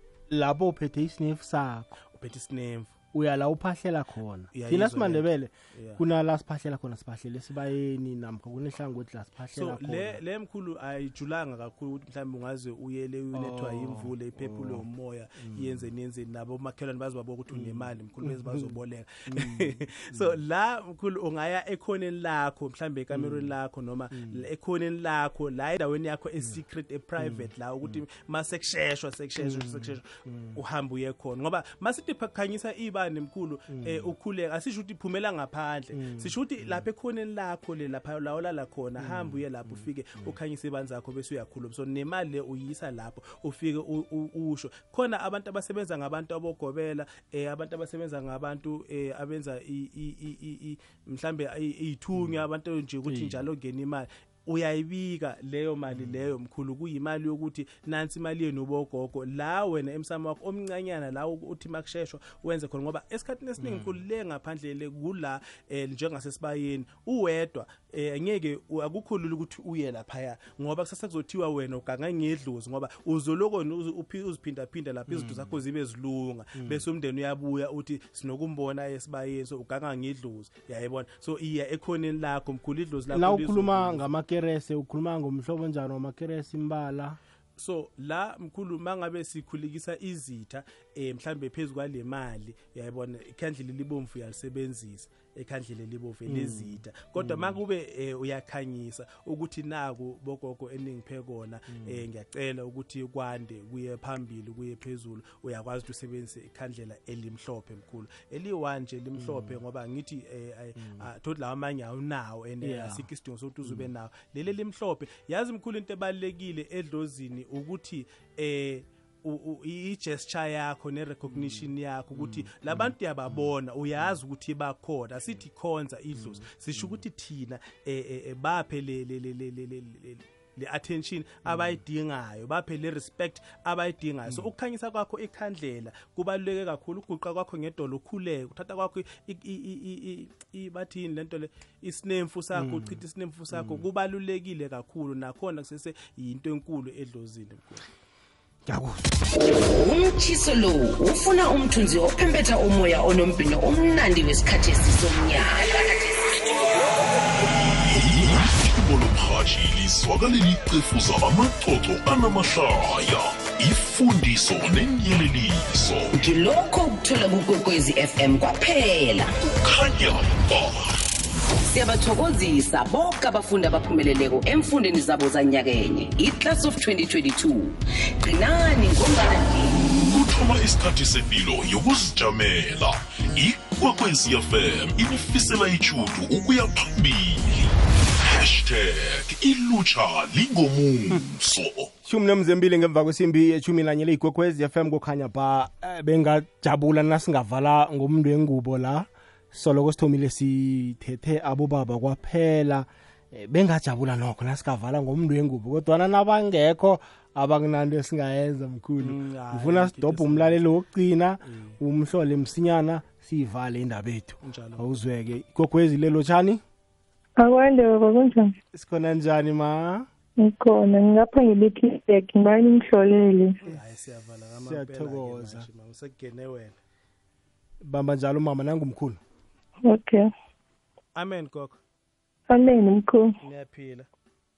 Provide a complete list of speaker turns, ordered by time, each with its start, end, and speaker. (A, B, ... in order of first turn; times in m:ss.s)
0:00.3-0:01.9 A
0:02.1-0:02.9 B
0:03.1-0:10.2 A
0:04.5-0:06.0 B
0:09.5-1:24.0 B
0:13.3-0:14.8 A
0:15.4-0:15.9 A
0:17.5-0:18.6 A
0:19.3-0:20.3 A
0:23.1-0:23.5 A
0:24.1-0:24.4 A
0:27.2-0:28.0 A
0:29.4-0:30.6 A
0:33.7-0:34.1 A
0:35.9-0:36.8 A
0:39.0-0:40.3 A
0:52.2-0:52.4 A
0:53.1-0:53.5 A
0:55.9-0:56.3 A
1:03.6-1:04.0 A
1:15.1-1:15.6 A
1:16.6-1:16.8 A
1:23.1-1:27.2 A
1:27.6-2:27.8 B
1:36.3-1:37.6 A
1:41.7-1:42.0 A
1:49.2-1:49.6 A
1:50.8-1:51.0 A
1:52.6-1:53.1 A
2:01.3-2:03.4 A
2:06.2-2:07.0 A
2:11.4-2:11.8 A
2:22.6-2:23.0 A
2:23.5-2:23.8 A
2:28.6-2:29.1 A
2:29.4-2:36.9 C
2:37.4-2:46.1 D
2:46.1-2:49.3 C
2:49.4-2:50.9 D
2:51.7-2:59.8 C
3:00.0-3:11.9 D
3:12.0-3:36.6 A
3:29.0-3:30.6 B
3:31.4-3:31.8 B
3:34.4-3:35.0 B
3:37.4-3:38.5 E
3:38.7-3:40.1 A
3:40.4-3:43.6 E
3:43.6-3:46.8 B
3:44.6-3:45.6 A
3:47.8-3:49.2 A
3:49.8-3:50.2 E
3:51.2-3:51.8 B
3:52.5-3:53.3 E
3:53.4-3:54.1 B